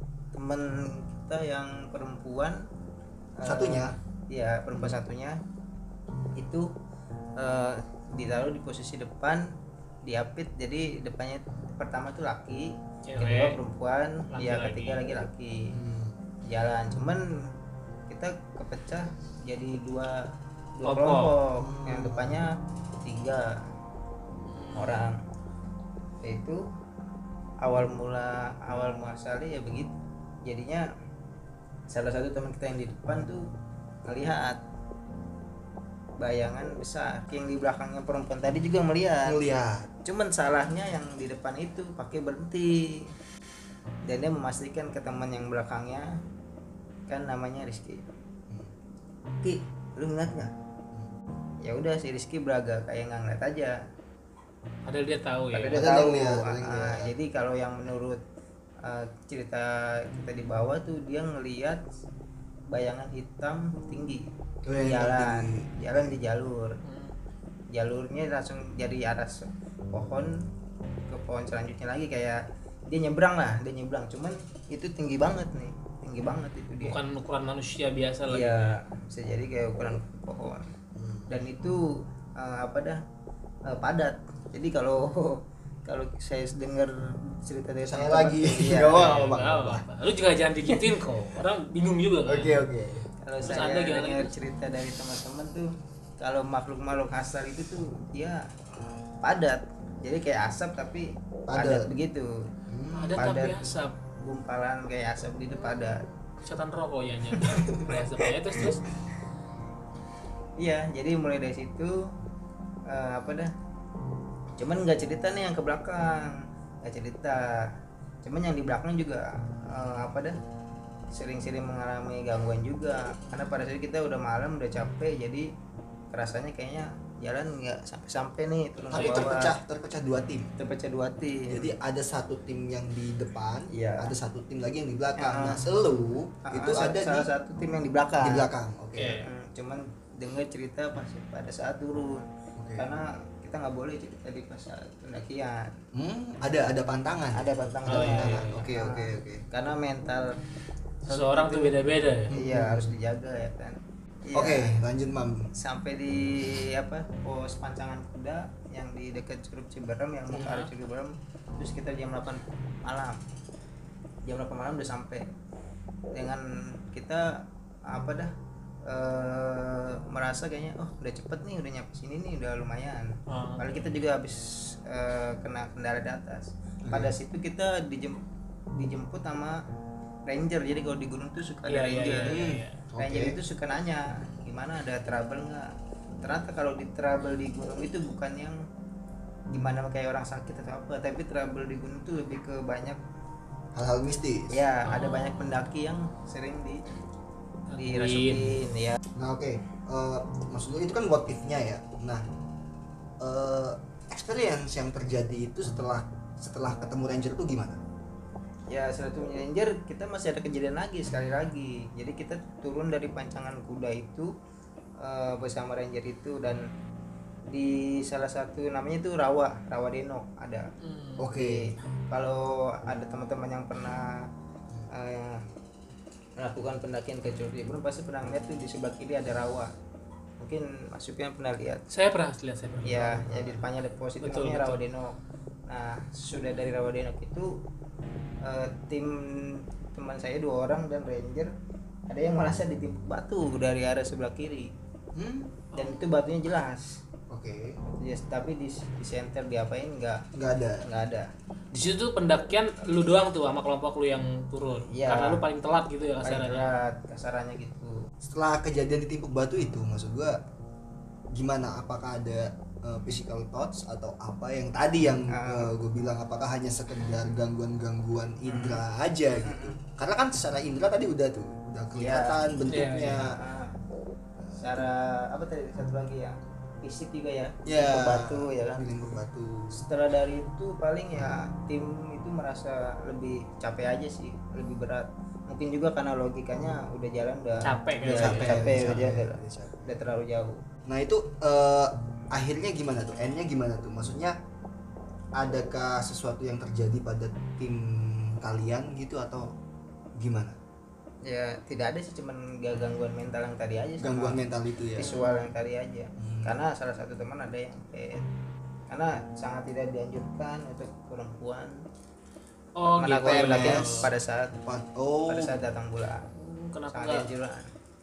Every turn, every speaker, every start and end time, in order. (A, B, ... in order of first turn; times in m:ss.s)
0:00.3-0:02.6 A
0:03.4-0:05.4 A
0:03.4-0:03.9 B
0:06.4-0:06.7 A
0:07.4-0:09.5 A
0:10.0-0:15.7 A
0:13.0-0:13.6 C
0:14.3-0:15.0 C
0:15.7-0:16.2 B
0:16.5-0:17.2 A
0:18.1-0:20.2 A
0:20.8-0:23.5 A
0:20.8-0:21.3 C
0:21.6-0:22.4 B
0:24.4-0:25.0 C
0:24.7-0:25.2 A
0:26.2-0:26.6 A
0:27.6-0:29.9 A
0:30.4-0:30.9 A
0:31.9-0:33.4 A
0:34.0-0:34.6 A
0:36.2-0:39.4 A
0:39.2-0:39.9 B
0:40.0-0:43.1 A
0:44.1-0:46.1 A
0:47.1-0:48.0 A
0:49.4-0:50.5 A
0:51.6-0:53.8 A
0:54.8-0:55.8 C
0:55.5-0:58.2 A
0:55.7-0:57.1 B
0:58.8-1:01.8 A
1:02.7-1:04.3 A
1:04.6-1:06.1 B
1:04.8-1:06.7 A
1:06.8-1:07.1 C
1:07.7-1:10.5 A
1:11.1-1:17.0 A
1:16.8-1:18.7 C
1:18.3-1:20.6 A
1:20.9-1:21.3 B
1:21.3-1:23.0 A
1:23.7-1:29.3 A
1:27.9-1:29.8 B
1:28.9-1:32.6 C
1:30.7-1:31.0 B
1:32.2-1:33.0 B
1:33.2-1:35.7 A
1:33.4-1:34.3 C
1:36.2-1:38.4 A
1:39.2-1:42.3 A
1:41.5-1:41.9 B
1:42.7-1:43.3 B
1:42.9-1:43.9 C
1:43.1-1:46.0 A
1:45.5-1:48.8 C
1:47.3-1:47.9 B
1:50.6-1:51.9 A
1:52.9-1:53.5 A
1:54.6-1:57.7 A
1:58.2-2:00.4 A
2:01.1-2:05.4 A
2:06.1-2:09.6 A
2:08.9-2:10.5 B
2:08.9-2:09.4 C
2:10.6-2:11.7 A
2:11.5-2:17.3 B
2:13.7-2:14.1 A
2:15.2-2:15.6 A
2:16.5-2:18.5 A
2:18.2-2:19.2 B
2:19.0-2:19.3 C
2:19.1-2:22.2 A
2:22.6-2:22.8 B
2:22.8-2:25.7 A
2:26.0-2:29.4 B
2:27.3-2:30.3 A
2:27.9-2:28.7 C
2:31.1-2:32.3 C
2:31.1-2:31.7 A
2:32.3-2:32.9 B
2:32.3-2:34.7 A
2:34.3-2:35.5 B
2:35.6-2:43.2 A
2:40.3-2:40.7 C
2:44.2-2:45.2 A
2:46.1-2:48.3 A
2:48.9-2:58.2 A
2:53.3-2:53.9 C
2:56.8-2:57.1 B
2:58.8-2:59.6 A
3:00.3-3:02.4 A
3:01.7-3:02.8 C
3:02.3-3:03.4 B
3:03.0-3:05.7 A
3:06.2-3:08.6 A
3:09.5-3:13.0 A
3:13.7-3:14.6 B
3:14.5-3:16.8 A
3:14.8-3:15.6 C
3:17.7-3:18.6 C
3:17.8-3:19.0 A
3:19.2-3:22.2 B
3:23.2-3:27.8 B
3:28.7-3:34.3 A
3:35.0-3:36.6 A
3:37.5-3:40.6 A
3:40.8-3:41.3 C
3:41.2-3:41.7 B
3:41.3-3:44.2 A
3:44.9-3:45.4 A
3:46.4-3:49.7 A
3:50.4-3:51.8 A
3:51.9-3:53.3 C
3:52.8-3:57.6 A
3:53.1-3:53.7 B
3:54.2-3:54.8 C
3:58.4-4:01.5 A
4:02.1-4:04.7 A
4:05.1-4:05.6 B
4:05.7-4:06.0 C
4:05.7-4:06.8 A
4:07.3-4:07.8 B
4:07.9-4:10.2 A
4:10.3-4:10.8 B
4:10.8-4:11.3 A
4:11.7-4:16.6 C
4:14.8-4:15.4 A
4:16.2-4:17.9 A
4:18.2-4:20.4 B
4:21.3-4:33.4 B
4:25.3-4:25.7 A
4:28.5-4:28.8 A
4:29.4-4:29.8 A
4:31.9-4:32.4 A
4:32.6-4:33.3 C
4:33.0-4:33.7 A
4:34.4-4:34.9 B
4:34.6-4:38.8 A
4:37.6-4:39.8 B
4:39.7-4:50.6 A
4:47.6-4:49.0 C
4:48.0-4:50.0 B
4:50.9-4:54.3 B
4:55.4-4:59.5 B
5:00.2-5:00.6 B
5:01.2-5:04.4 A
5:04.0-5:05.2 B
5:05.0-5:08.2 A
5:05.0-5:05.5 C
5:06.2-5:06.6 B
5:08.9-5:11.8 A
5:12.8-5:14.1 C
5:13.0-5:14.6 A
5:13.2-5:14.1 B
5:14.6-5:15.6 B
5:15.3-5:16.3 A
5:16.4-5:17.3 C
5:16.9-5:17.7 A